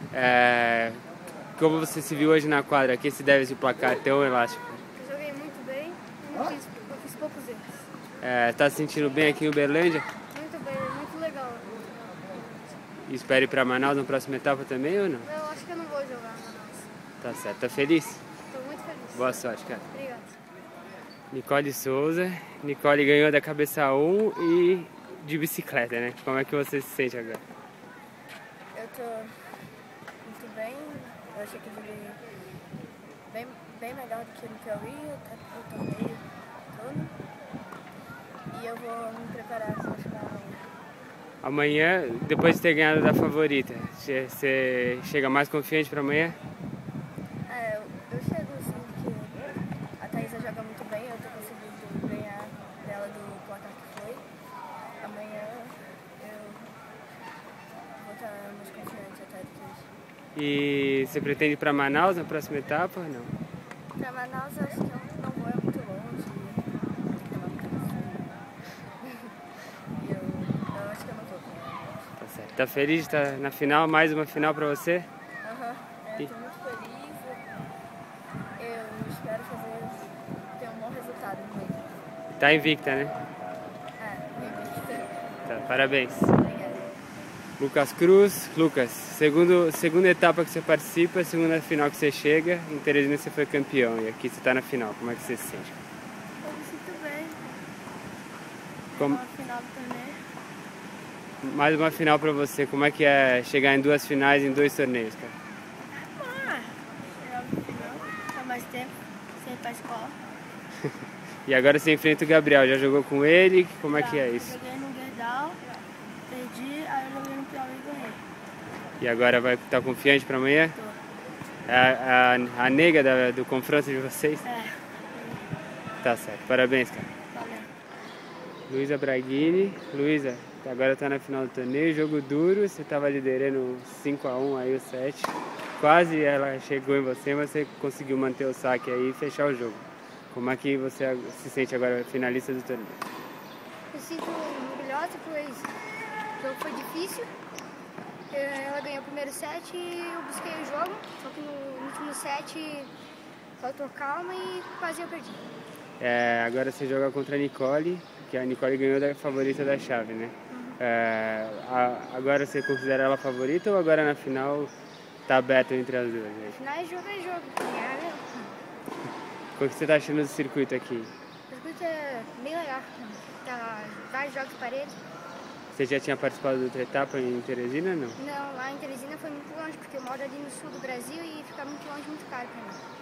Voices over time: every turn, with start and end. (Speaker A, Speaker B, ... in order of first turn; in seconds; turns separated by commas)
Speaker A: 0.1-1.0, Speaker A: 1.6-4.7, Speaker B: 4.9-7.9, Speaker A: 8.2-10.1, Speaker B: 10.3-12.8, Speaker A: 13.1-15.3, Speaker B: 15.2-16.9, Speaker A: 17.2-18.2, Speaker B: 18.5-20.4, Speaker A: 19.1-19.9, Speaker A: 21.3-27.4, Speaker C: 28.7-29.7, Speaker C: 30.2-32.2, Speaker C: 33.3-37.1, Speaker C: 38.5-40.7, Speaker A: 41.4-46.4, Speaker C: 47.5-54.3, Speaker C: 55.0-56.7, Speaker C: 57.9-59.9, Speaker A: 60.3-63.3, Speaker C: 64.0-68.4, Speaker C: 69.0-69.3, Speaker C: 70.0-72.1, Speaker A: 72.2-75.1, Speaker C: 75.4-77.5, Speaker C: 78.5-81.9, Speaker A: 82.4-83.2, Speaker C: 84.0-85.2, Speaker A: 85.5-86.3, Speaker C: 86.3-87.0, Speaker A: 87.6-95.8, Speaker B: 96.4-97.5, Speaker B: 98.9-100.2, Speaker A: 99.0-99.2, Speaker A: 101.4-105.4, Speaker B: 105.9-110.1, Speaker A: 111.5-114.6, Speaker B: 113.9-115.6, Speaker B: 116.3-118.2, Speaker A: 119.0-120.8, Speaker A: 121.7-124.5, Speaker B: 124.5-125.3, Speaker A: 126.0-127.1, Speaker B: 127.3-127.7, Speaker A: 128.7-143.0, Speaker B: 143.9-145.7, Speaker B: 146.4-147.3, Speaker B: 148.3-152.9, Speaker B: 153.6-155.4, Speaker A: 156.0-164.7, Speaker B: 160.5-160.8, Speaker A: 165.2-166.6, Speaker B: 166.5-168.5, Speaker A: 169.6-171.1, Speaker B: 171.5-175.0, Speaker A: 175.7-178.2, Speaker B: 178.2-182.8